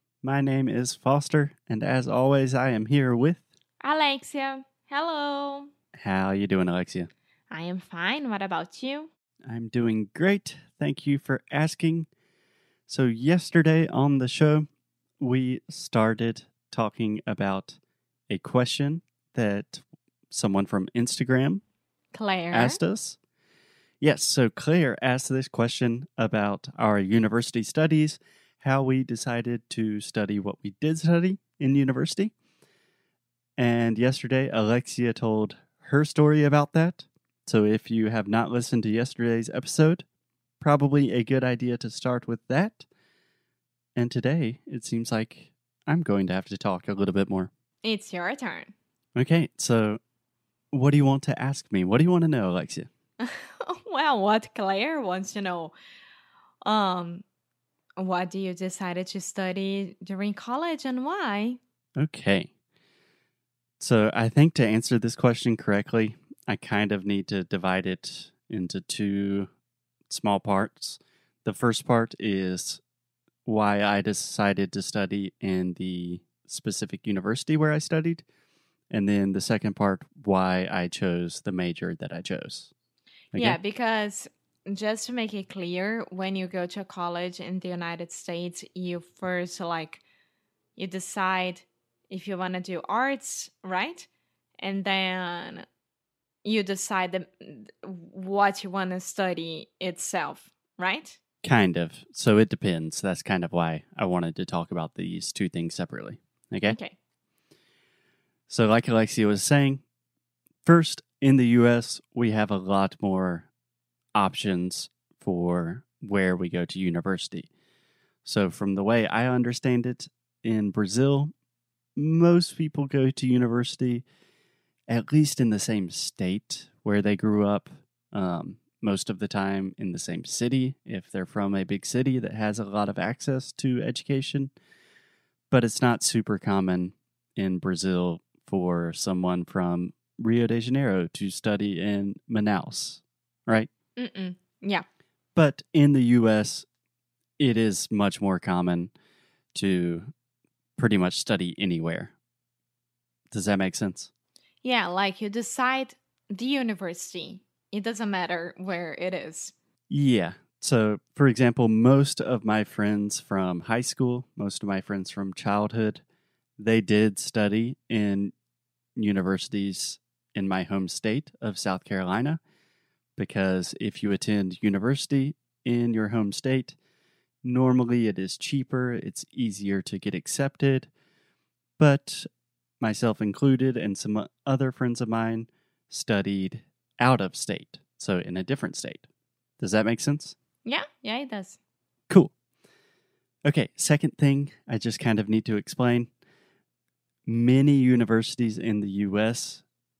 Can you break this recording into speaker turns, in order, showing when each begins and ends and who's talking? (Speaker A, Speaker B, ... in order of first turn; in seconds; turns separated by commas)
Speaker A: 0.2-3.4, Speaker B: 3.8-5.7, Speaker A: 6.0-7.1, Speaker B: 7.5-9.1, Speaker A: 9.5-12.1, Speaker A: 12.9-14.7, Speaker A: 15.2-17.8, Speaker A: 18.3-21.6, Speaker B: 22.1-22.8, Speaker A: 22.5-23.2, Speaker A: 24.0-32.3, Speaker A: 33.6-40.0, Speaker A: 40.6-42.9, Speaker A: 44.0-47.5, Speaker B: 47.8-48.7, Speaker A: 49.2-50.0, Speaker A: 50.7-52.9, Speaker B: 53.2-55.8, Speaker B: 56.6-57.2, Speaker B: 58.0-61.6, Speaker A: 62.0-62.5, Speaker A: 63.8-69.5, Speaker A: 70.1-72.8, Speaker A: 73.4-78.2, Speaker A: 78.9-82.7, Speaker B: 83.3-90.0, Speaker B: 90.8-94.1, Speaker B: 94.6-95.7, Speaker B: 96.4-101.2, Speaker A: 101.4-106.8, Speaker B: 106.7-107.0, Speaker A: 108.5-109.8, Speaker A: 110.6-113.5, Speaker A: 114.1-117.5, Speaker A: 118.2-121.3, Speaker A: 122.0-124.0, Speaker A: 124.9-134.5, Speaker A: 135.5-143.7, Speaker B: 144.0-144.8, Speaker A: 145.3-146.7, Speaker A: 147.4-148.9, Speaker A: 149.5-150.1, Speaker A: 150.8-152.1, Speaker A: 153.3-154.1, Speaker B: 154.6-159.5, Speaker A: 159.9-166.0, Speaker A: 166.6-168.3, Speaker A: 168.9-172.4, Speaker A: 173.2-176.8, Speaker A: 177.4-180.9, Speaker A: 181.8-182.3, Speaker A: 182.8-189.1, Speaker A: 189.6-190.3, Speaker B: 190.7-191.6, Speaker A: 193.4-196.1, Speaker A: 197.2-199.6